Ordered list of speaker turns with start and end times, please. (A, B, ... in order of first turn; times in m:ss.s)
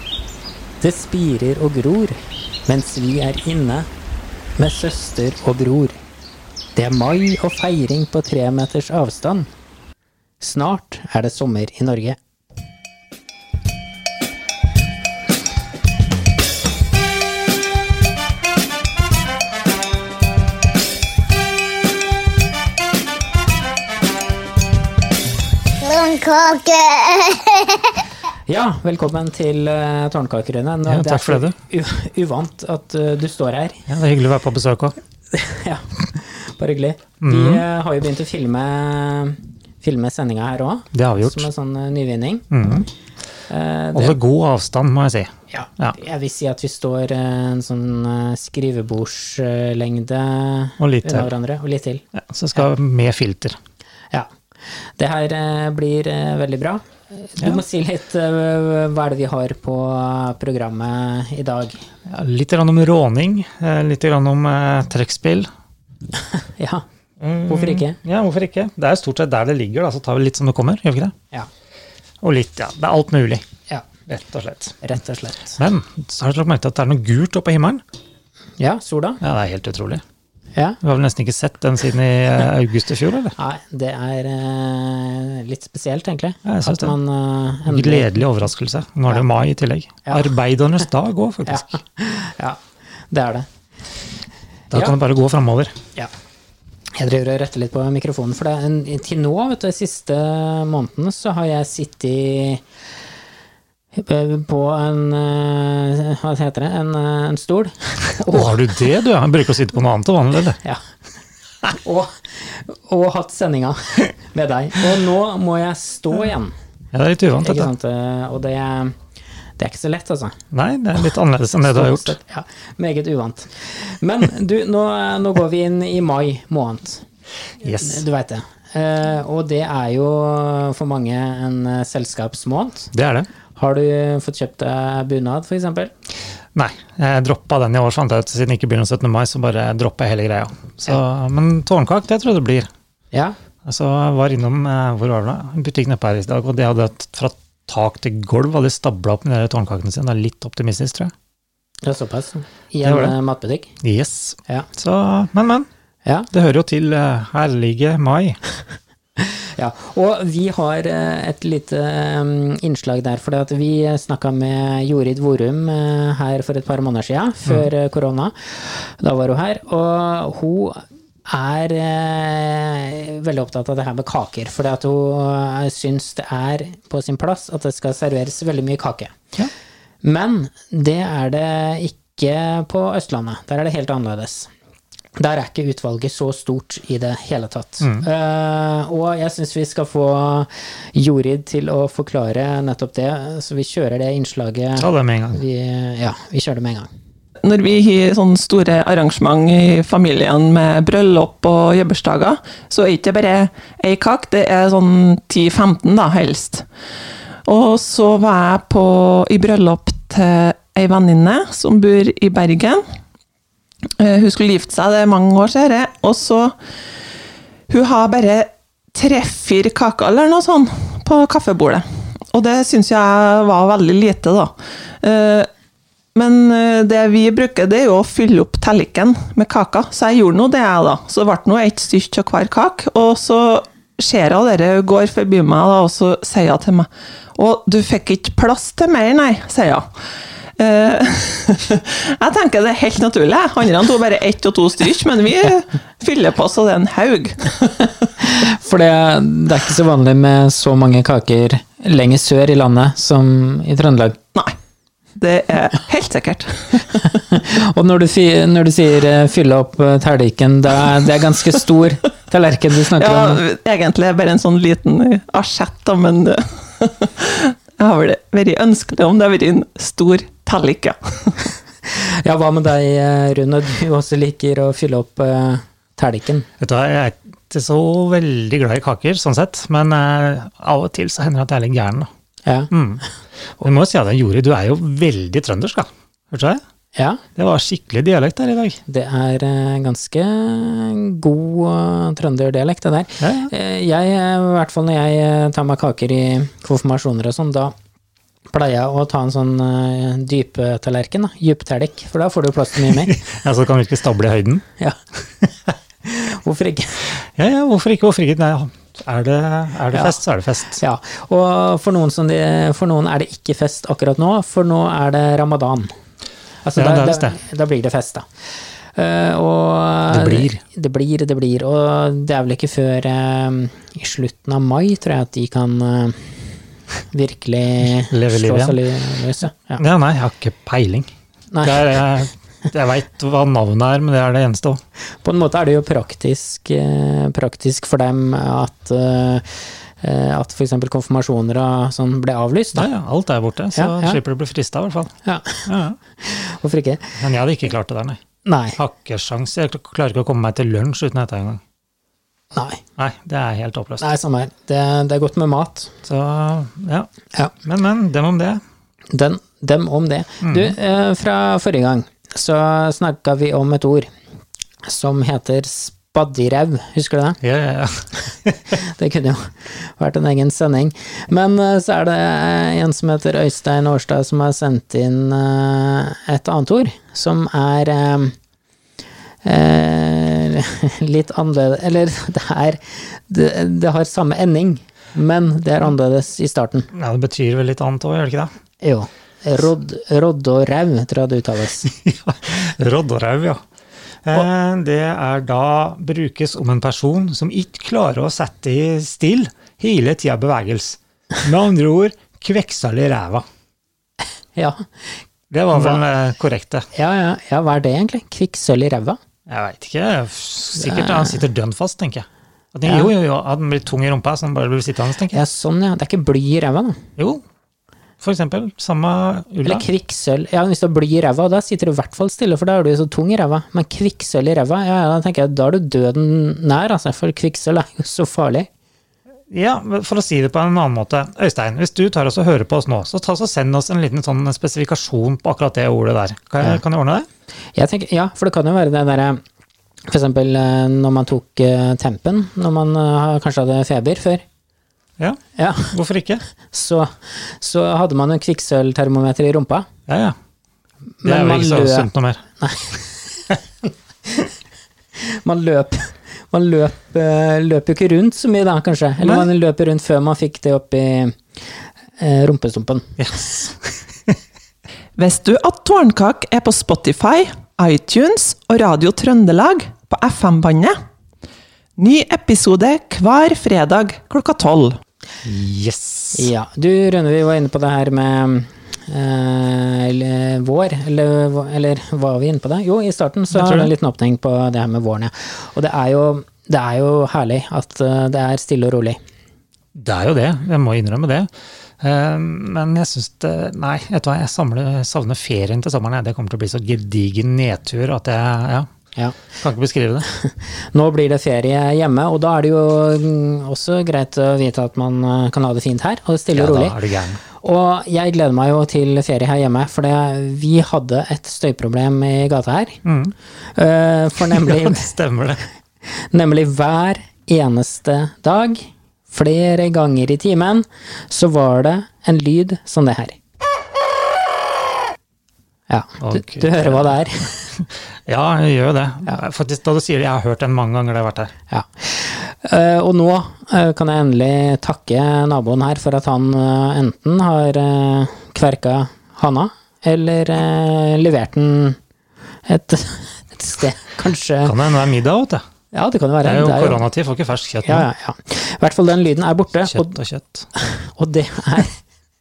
0:00.8-0:03.9 A
0:04.6-0:06.0 A
0:06.8-0:09.5 A
0:10.4-0:12.2 A
0:25.8-0:27.9 B
0:28.5-0:33.9 A
0:30.9-0:31.6 C
0:33.9-0:35.0 C
0:35.3-0:42.5 A
0:37.2-0:37.6 C
0:40.9-0:41.5 C
0:42.5-0:42.9 C
0:43.5-0:44.2 A
0:43.9-0:46.0 C
0:45.5-0:52.0 A
0:50.8-0:51.3 C
0:52.2-0:53.6 C
0:55.0-1:01.8 A
1:02.1-1:05.5 C
1:06.3-1:06.8 A
1:07.2-1:11.1 C
1:07.5-1:08.0 A
1:12.2-1:13.4 C
1:14.1-1:14.8 C
1:14.8-1:15.6 A
1:15.6-1:17.8 C
1:18.6-1:19.2 A
1:19.2-1:20.0 C
1:20.8-1:23.3 C
1:23.4-1:28.2 A
1:26.5-1:26.9 C
1:27.7-1:31.8 C
1:30.1-1:30.3 A
1:31.5-1:32.6 A
1:33.1-1:33.5 A
1:34.7-1:35.7 C
1:37.0-1:42.6 A
1:44.0-1:48.6 A
1:48.3-1:50.6 C
1:51.7-1:56.5 A
1:56.9-1:57.7 C
1:57.4-1:59.0 A
1:59.6-2:00.3 A
2:00.5-2:02.2 C
2:01.7-2:07.0 A
2:07.6-2:08.0 C
2:07.8-2:12.9 A
2:12.9-2:13.3 C
2:13.6-2:15.9 A
2:16.6-2:22.7 C
2:23.7-2:31.1 C
2:31.8-2:33.7 A
2:32.8-2:33.2 C
2:33.8-2:35.7 C
2:36.3-2:38.4 C
2:39.2-2:59.2 A
3:00.0-3:04.5 A
3:05.2-3:16.9 A
3:07.8-3:08.1 C
3:14.8-3:15.4 C
3:17.4-3:26.6 D
3:27.5-3:32.8 D
3:34.0-3:36.6 D
3:37.7-3:45.5 D
3:46.2-3:59.9 D
4:00.6-4:07.6 D
4:07.8-4:14.2 A
4:15.2-4:17.0 D
4:17.0-4:23.4 A
4:23.0-4:31.4 D
4:31.9-4:36.5 A
4:36.6-4:42.1 C
4:42.4-4:42.7 A
4:42.7-4:43.0 C
4:43.6-4:46.6 C
4:47.0-4:47.2 A
4:47.4-4:48.8 C
4:48.9-4:57.7 A
4:53.2-4:53.5 C
4:58.5-5:03.2 A
5:02.9-5:04.6 C
5:06.0-5:07.1 A
5:07.4-5:10.8 C
5:09.9-5:10.2 A
5:10.8-5:15.9 A
5:16.6-5:18.3 A
5:16.8-5:17.4 C
5:19.0-5:26.2 A
5:20.1-5:20.6 C
5:27.1-5:29.8 A
5:28.1-5:28.8 C
5:29.8-5:31.1 C
5:31.5-5:31.8 A
5:31.6-5:34.8 C
5:35.2-5:42.9 A
5:42.8-5:45.1 C
5:43.8-5:44.2 A
5:45.2-5:45.7 A
5:45.7-5:46.0 C
5:46.2-5:47.2 A
5:47.2-5:48.2 C
5:48.4-5:48.8 A
5:48.8-5:51.6 C
5:52.5-5:52.8 A
5:53.0-5:54.1 C
5:54.0-5:55.9 A
5:56.0-5:57.1 C
5:57.6-5:58.6 C
5:59.1-6:04.1 A
6:00.4-6:00.8 C
6:04.9-6:07.4 A
6:07.4-6:08.6 C
6:08.7-6:18.4 A
6:19.4-6:26.9 A
6:26.9-6:28.5 C
6:28.8-6:31.9 A
6:31.8-6:33.6 C
6:34.2-6:43.4 C
6:44.6-6:44.8 A
6:45.5-6:46.9 C
6:45.8-6:46.0 A
6:46.9-6:49.2 A
6:49.5-6:55.4 C
6:50.8-6:51.4 A
6:55.3-6:57.0 A
6:57.2-6:57.4 C
6:58.2-6:59.8 C
6:59.6-7:08.7 A
7:09.5-7:17.3 C
7:17.8-7:19.4 A
7:20.1-7:24.4 A
7:25.2-7:26.4 C
7:25.6-7:26.0 A
7:26.7-7:29.9 A
7:30.1-7:30.4 C
7:31.2-7:32.1 A
7:31.2-7:32.4 C
7:32.6-7:33.6 A
7:35.2-7:41.4 A
7:39.2-7:39.5 C
7:42.2-7:43.2 A
7:43.2-7:43.8 C
7:45.2-7:51.0 D
7:52.0-7:55.0 D
7:55.4-7:56.5 C
7:56.3-8:09.2 A
8:03.5-8:03.9 C
8:10.0-8:11.5 C
8:12.0-8:18.9 C
8:19.6-8:20.3 C
8:20.3-8:27.0 A
8:26.5-8:27.4 C
8:27.6-8:33.0 A
8:33.0-8:33.4 C
8:33.8-8:35.1 A
8:34.5-8:35.7 C
8:36.1-8:43.4 A
8:45.9-8:47.7 A
8:46.2-8:47.2 C
8:47.7-8:51.5 C
8:51.7-9:02.0 A
9:02.7-9:04.7 A
9:04.6-9:05.6 C
9:05.9-9:07.0 A
9:06.4-9:08.1 C
9:07.8-9:10.2 A
9:09.9-9:10.7 C
9:10.8-9:12.0 A